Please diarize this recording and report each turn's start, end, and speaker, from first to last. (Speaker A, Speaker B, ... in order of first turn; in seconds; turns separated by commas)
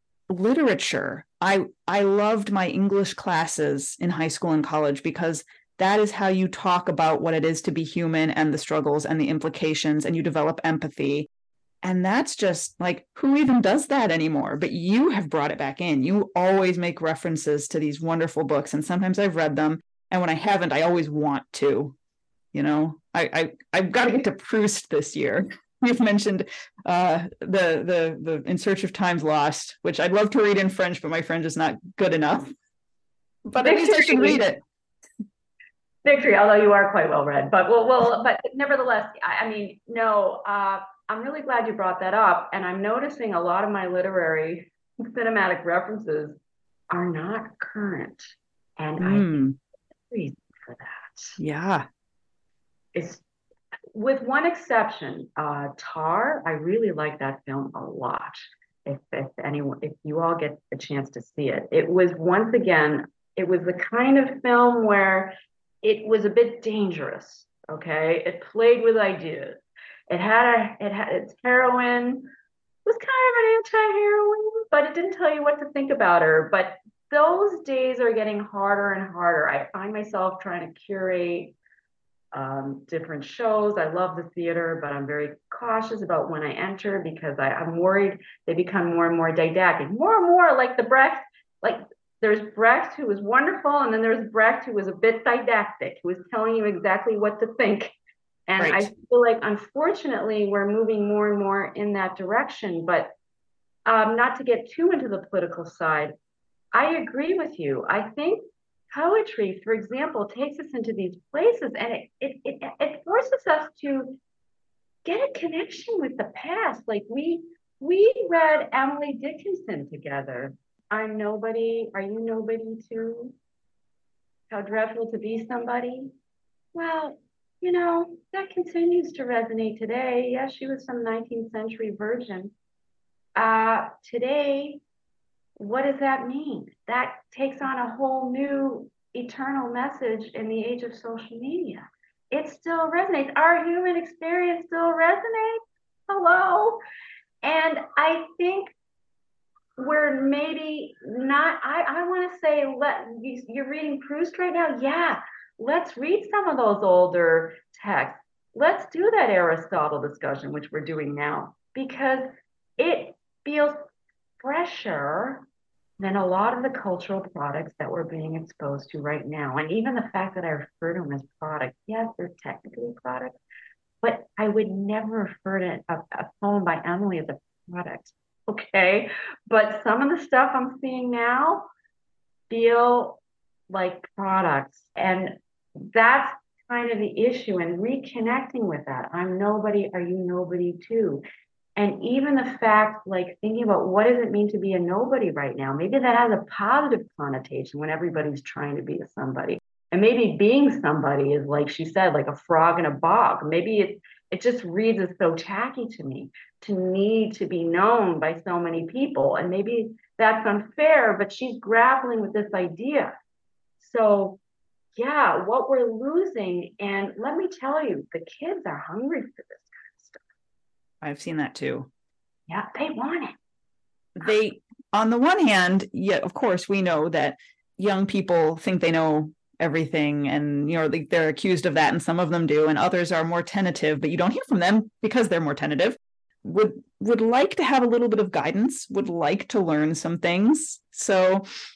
Speaker A: 0.3-11.3, Speaker A: 11.8-21.9, Speaker A: 22.5-32.5, Speaker A: 33.5-34.6, Speaker B: 33.6-34.5, Speaker B: 36.0-46.4, Speaker B: 46.9-49.5, Speaker A: 49.0-49.5, Speaker B: 50.1-51.4, Speaker A: 51.4-51.9, Speaker B: 52.9-53.2, Speaker B: 53.9-72.3, Speaker B: 72.8-81.5, Speaker B: 82.3-97.9, Speaker B: 98.5-103.1, Speaker A: 98.6-98.9, Speaker B: 103.8-106.1, Speaker B: 106.7-114.2, Speaker B: 115.0-123.3, Speaker B: 124.5-126.1, Speaker B: 126.7-132.5, Speaker B: 133.3-134.8, Speaker B: 135.6-146.8, Speaker B: 147.4-148.7, Speaker B: 149.8-162.3, Speaker B: 162.8-163.8, Speaker B: 164.4-165.4, Speaker B: 166.0-173.4, Speaker B: 174.0-181.7, Speaker B: 182.5-191.2, Speaker B: 191.8-213.1, Speaker B: 213.8-214.4, Speaker B: 214.9-220.2, Speaker A: 221.0-221.9, Speaker B: 222.5-223.4, Speaker A: 224.2-241.4